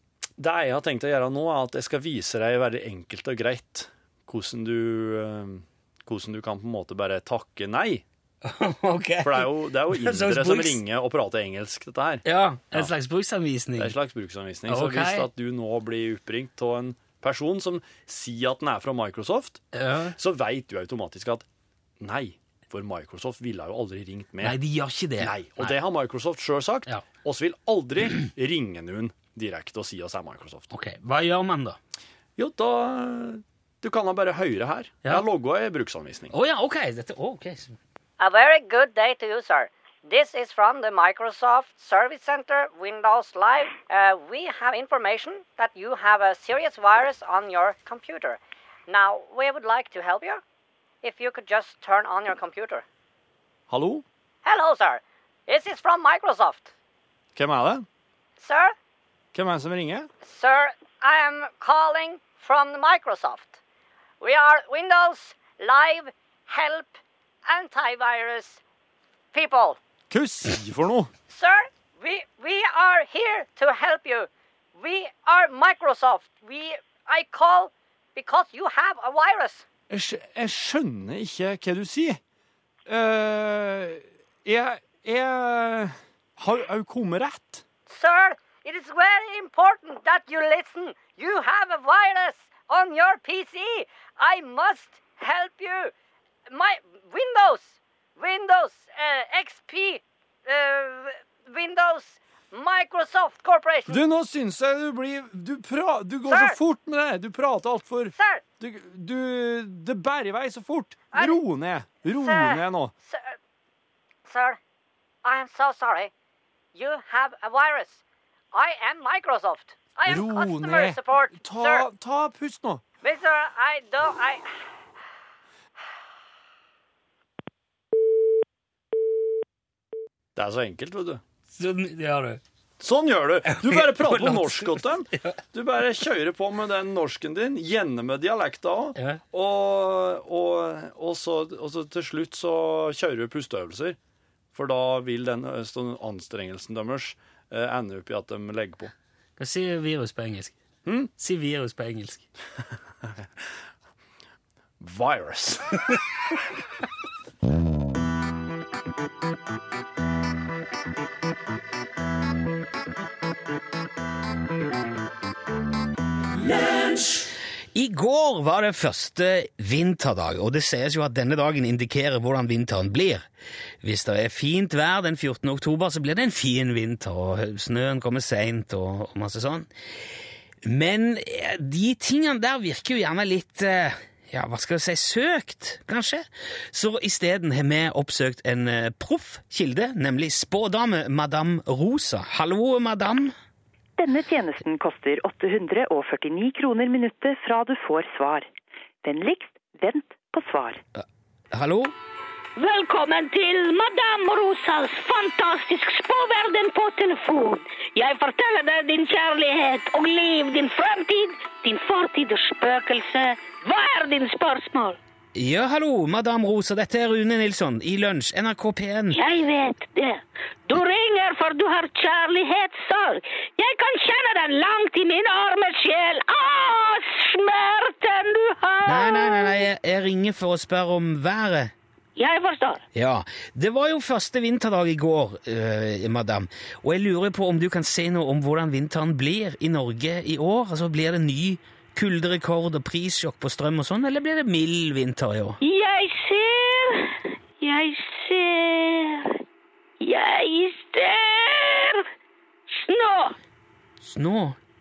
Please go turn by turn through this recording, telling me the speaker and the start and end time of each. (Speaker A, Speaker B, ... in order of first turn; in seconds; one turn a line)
Speaker A: 0.4-8.1
Speaker B: 8.4-10.8
Speaker A: 9.2-12.9
Speaker B: 12.2-13.9
Speaker A: 13.8-19.6
Speaker B: 14.7-15.3
Speaker B: 19.7-20.2
Speaker A: 20.2-21.5
Speaker A: 22.0-24.6
Speaker B: 24.4-25.8
Speaker A: 25.2-30.7
Speaker B: 30.7-31.8
Speaker A: 32.4-36.3
Speaker B: 36.3-37.8
Speaker C: 38.2-50.4
Speaker C: 51.0-52.8
Speaker A: 53.7-54.0
Speaker C: 54.5-56.7
Speaker A: 57.4-57.9
Speaker C: 58.4-58.7
Speaker A: 59.3-60.1
Speaker C: 60.2-63.6
Speaker C: 64.2-68.6
Speaker C: 69.3-69.8
Speaker A: 70.1-71.1
Speaker C: 71.3-79.7
Speaker A: 79.9-82.2
Speaker A: 82.9-87.7
Speaker C: 87.9-95.9
Speaker C: 96.5-104.0
Speaker A: 103.9-112.9
Speaker C: 106.3-106.6
Speaker C: 108.2-108.4
Speaker C: 111.1-111.4
Speaker C: 112.2-113.3
Speaker C: 114.3-114.6
Speaker C: 115.2-116.1
Speaker C: 116.8-118.0
Speaker C: 118.5-121.9
Speaker A: 120.0-122.8
Speaker C: 123.0-124.6
Speaker A: 130.3-131.2
Speaker B: 131.5-132.4
Speaker A: 132.8-144.0
Speaker B: 133.5-135.4
Speaker B: 139.0-139.2
Speaker A: 144.5-148.9
Speaker B: 149.4-150.6
Speaker A: 150.8-151.1
Speaker B: 151.2-152.3
Speaker A: 154.8-155.8
Speaker B: 167.8-173.2
Speaker B: 173.8-179.7
Speaker B: 180.6-193.3
Speaker D: 194.0-198.5
Speaker D: 199.0-200.8
Speaker B: 200.9-201.9
Speaker E: 202.6-215.0
Speaker B: 215.3-219.2
Speaker E: 219.1-229.6
Speaker B: 228.9-231.7
Speaker E: 232.2-232.8
Speaker B: 232.9-245.6
Speaker E: 245.6-249.4
Speaker E: 250.0-252.1
Speaker E: 252.7-253.4
Speaker B: 254.0-254.6